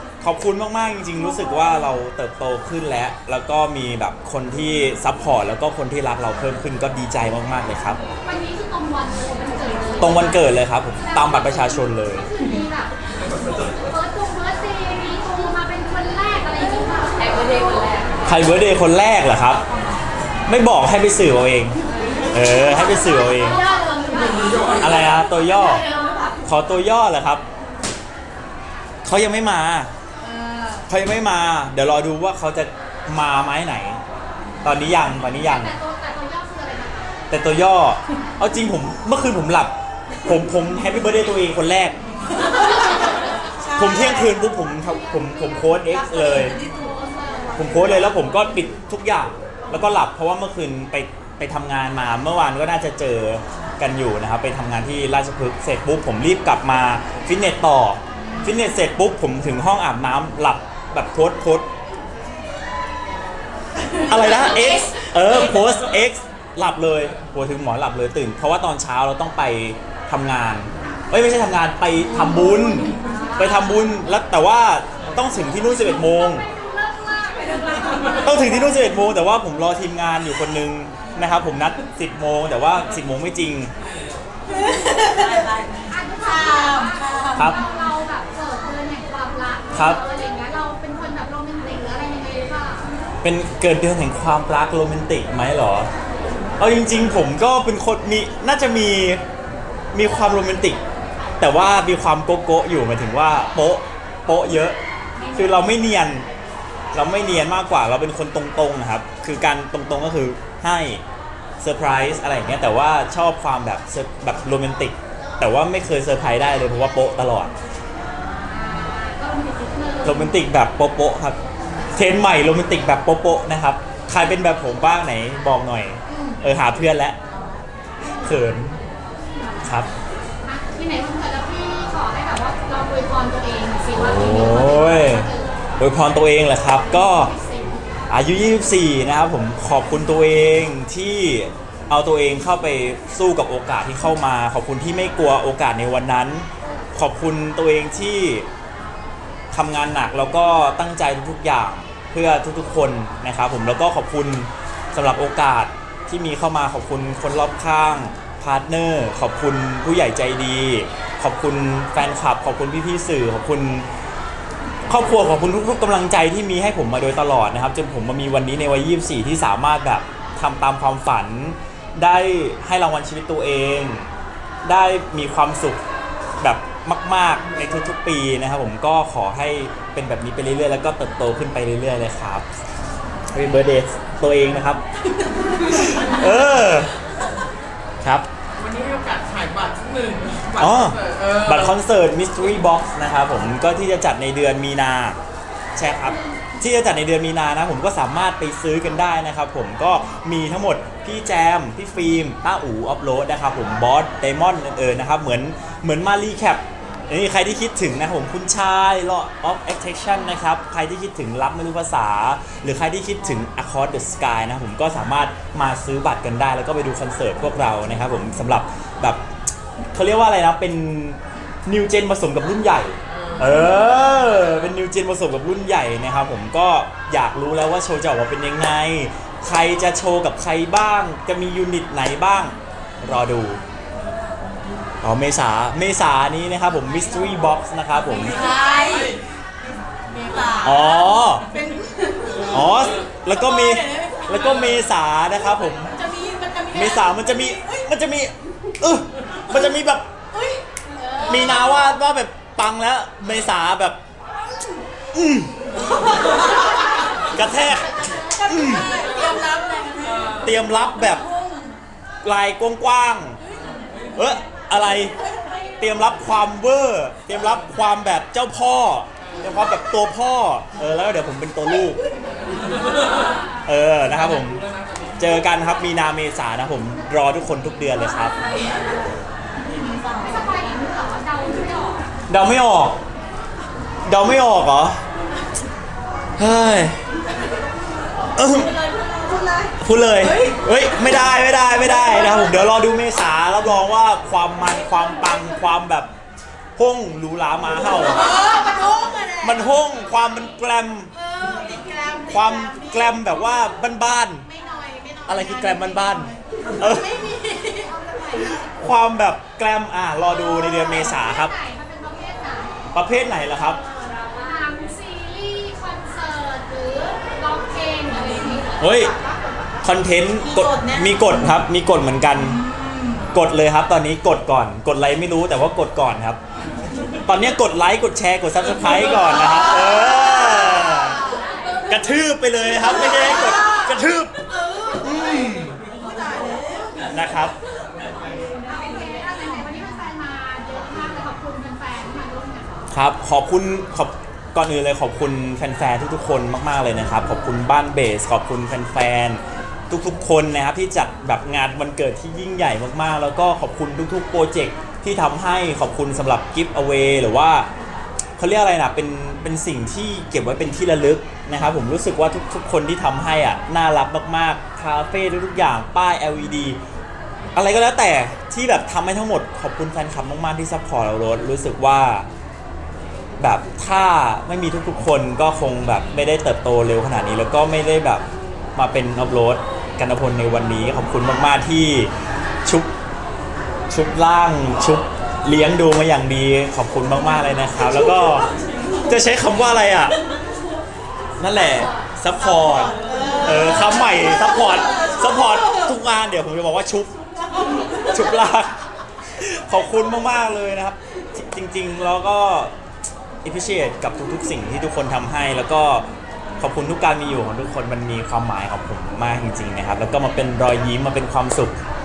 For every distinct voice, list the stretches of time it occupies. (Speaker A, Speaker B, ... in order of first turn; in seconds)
Speaker A: 0.2-8.0, 10.0-12.3, 18.2-19.6, 20.4-21.8, 22.3-23.6, 24.7-25.9, 26.4-27.4, 29.0-29.9, 30.9-34.0, 34.6-35.7, 37.3-39.7, 40.2-42.0, 43.7-46.6, 47.5-61.7, 64.0-76.5, 78.2-83.7, 87.3-87.6, 89.7-90.0, 93.2-95.9, 96.6-99.2, 99.9-100.8, 101.4-104.8, 105.3-106.3, 106.9-111.0, 111.6-117.5, 120.0-121.4, 121.9-127.2, 128.1-128.8, 129.6-129.9, 133.9-137.3, 138.1-148.5, 149.5-163.9, 164.9-174.1, 174.6-175.8, 176.4-182.4, 183.3-184.8, 185.6-186.9, 190.6-195.2, 195.8-219.2, 219.9-233.6, 235.0-238.7, 240.6-241.5, 242.5-246.0, 246.7-250.1, 251.2-254.0, 255.1-255.6, 257.2-259.0, 260.3-261.3, 262.2-263.4, 264.1-265.2, 265.8-272.0, 273.6-274.6, 275.2-278.4, 282.3-283.0, 284.0-285.0, 286.4-287.0, 288.4-288.8, 289.8-296.1, 296.8-298.5, 299.2-301.1, 302.2-304.5, 305.2-307.3, 308.3-311.5, 312.9-313.8, 318.8-319.1, 319.8-322.7, 323.3-326.4, 327.2-331.2, 331.9-335.8, 337.1-337.5, 342.9-357.7, 358.4-366.8, 367.5-372.3, 373.4-382.1, 382.6-382.9, 383.9-388.5, 389.0-390.2, 391.4-397.1, 398.0-398.8, 399.4-402.7, 403.4-406.1, 406.6-411.8
Speaker B: 8.2-18.1, 19.6-20.1, 21.9-24.9, 25.7-26.3, 35.2-37.1, 44.7-45.7, 46.5-47.5, 72.8-74.1, 75.5-78.9, 85.8-92.9, 118.4-120.3, 126.1-126.4, 129.2-129.8, 130.4-135.6, 136.7-138.0, 273.1-273.5, 280.1-282.1, 310.3-312.9, 314.3-319.7, 331.0-331.9, 338.4-342.9
Speaker C: 84.7-85.6, 238.5-239.2, 240.2-240.8, 241.5-242.5, 246.1-246.8, 250.4-251.3, 258.3-260.3, 289.2-289.7, 298.6-299.3, 301.3-302.4, 304.7-305.8, 307.6-307.9, 336.2-336.8
Speaker D: 85.3-85.6, 188.5-191.8, 223.1-224.6, 238.6-239.1, 258.8-259.2, 269.2-269.5, 272.4-273.2, 274.1-275.3